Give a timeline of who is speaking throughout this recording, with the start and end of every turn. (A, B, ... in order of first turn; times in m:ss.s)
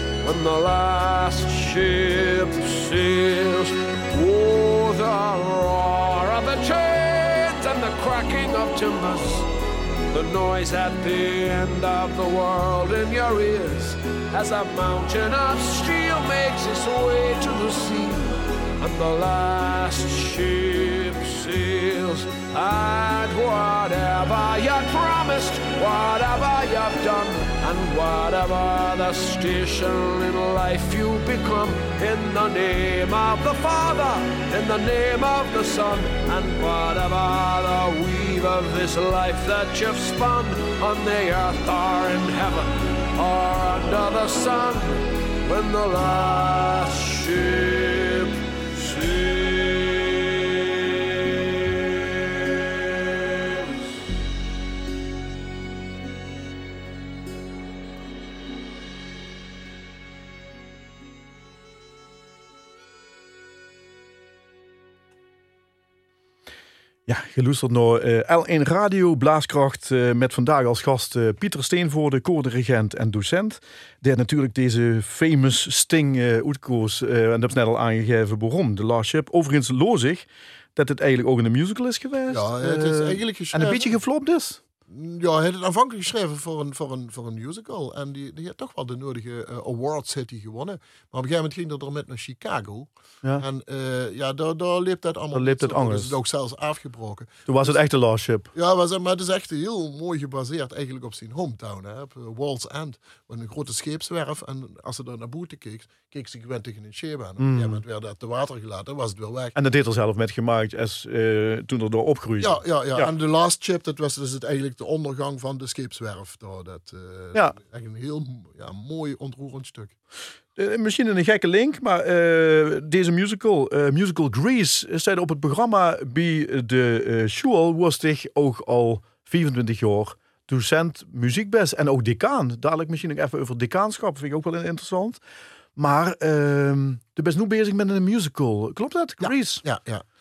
0:00.2-0:09.5 A
0:10.1-0:51.5 A
1:07.1-1:24.6 B
1:22.3-1:24.0 C
1:24.9-1:37.8 C
1:35.3-1:36.2 B
1:37.5-1:38.5 B
1:38.5-1:49.6 C
1:47.4-1:47.8 B
1:49.6-1:53.1 B
1:52.4-2:00.0 C
2:00.6-2:15.2 B
2:15.8-2:19.6 B
2:19.2-2:20.0 C